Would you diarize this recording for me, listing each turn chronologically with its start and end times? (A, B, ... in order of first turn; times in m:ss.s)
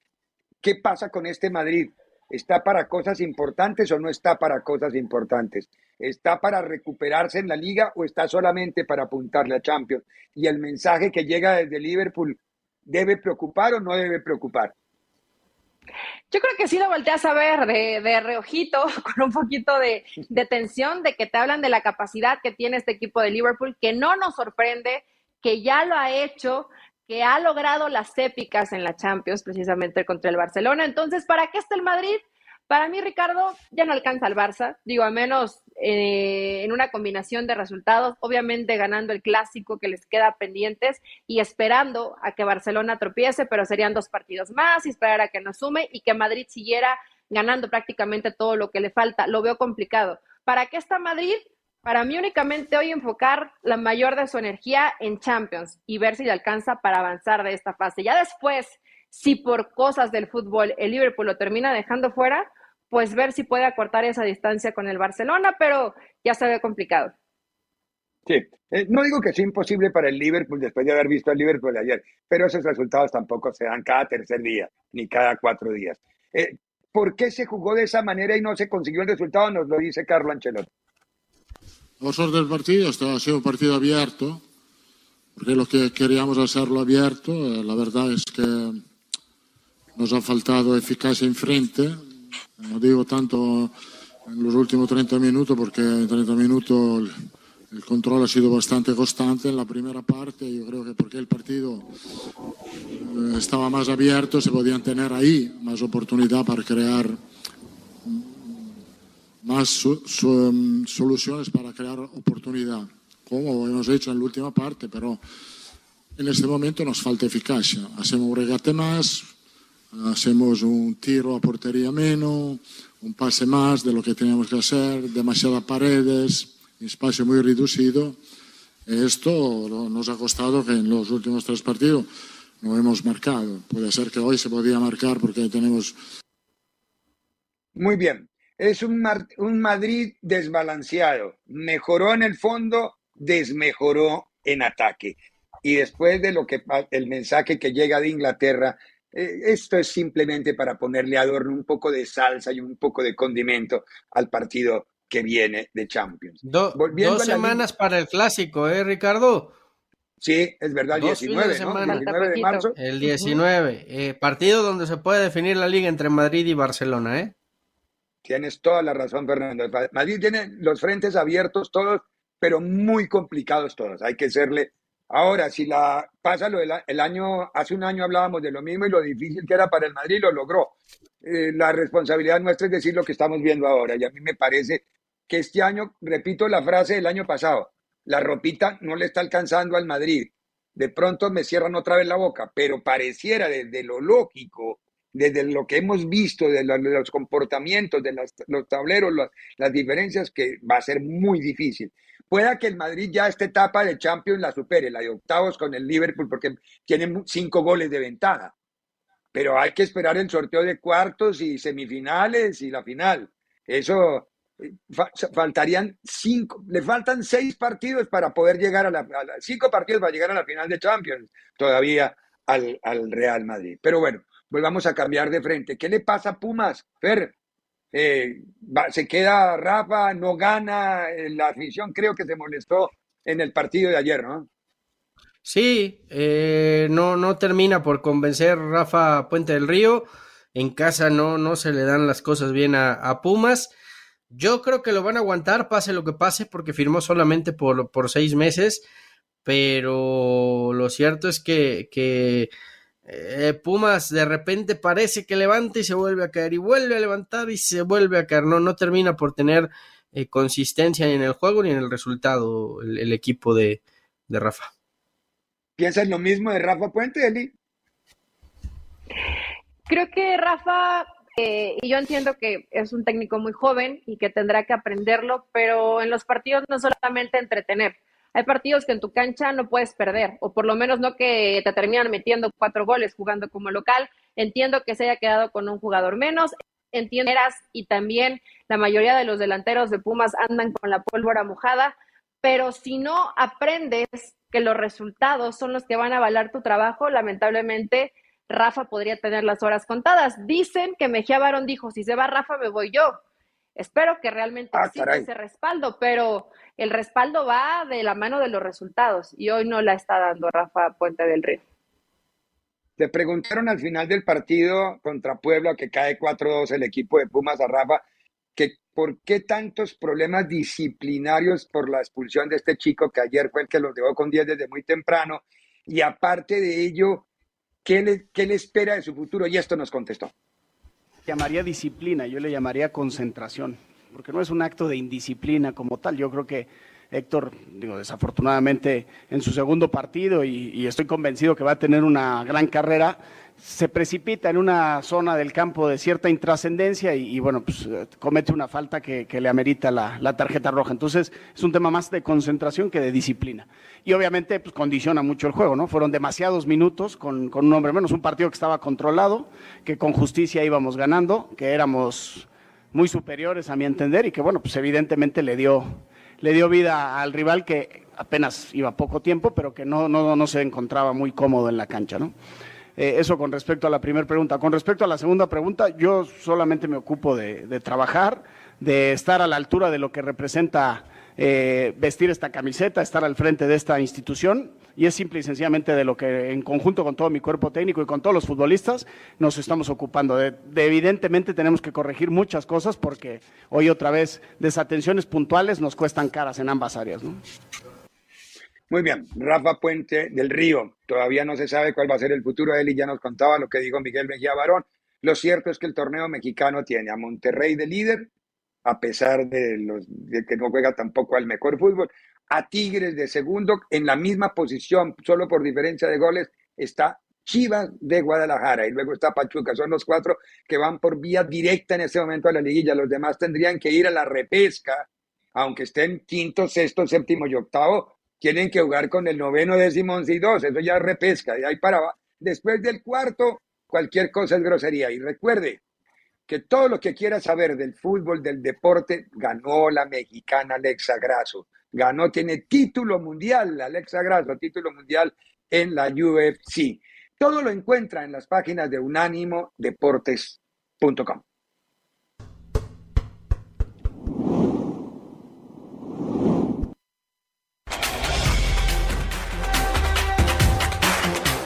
0:00.6-0:14.7 A
0:16.3-1:07.1 B
1:08.2-1:20.7 A
1:22.0-1:24.4 C
1:25.4-1:28.8 C
1:30.0-1:32.0 C
1:32.6-1:33.7 C
1:34.3-1:37.1 C
1:37.7-1:41.9 C
1:42.9-1:47.2 C
1:48.0-1:48.7 C
1:49.4-1:55.2 C
1:56.2-1:59.3 C
1:59.9-2:08.2 C
2:08.9-2:12.1 C
2:12.6-2:15.9 C
2:17.7-2:37.6 A
2:36.4-2:39.5 D
2:40.2-2:42.7 A
2:40.9-2:42.0 D
2:41.8-2:42.7 B
2:42.8-2:47.3 D
2:48.2-3:28.5 A
3:29.3-3:47.3 A
3:47.9-3:54.5 A
3:55.4-4:03.7 D
4:04.3-4:08.8 D
4:09.4-4:12.5 D
4:13.1-4:24.7 D
4:25.8-4:27.5 A
4:29.9-5:03.2 B
5:03.8-5:11.6 B
5:04.7-5:05.3 A
5:13.0-5:18.0 A
5:18.6-5:27.2 A
5:27.8-5:30.3 A
5:31.2-6:12.3 E
6:13.0-6:37.4 E
6:38.9-6:48.3 A
6:48.8-7:15.8 A
7:16.5-7:31.4 A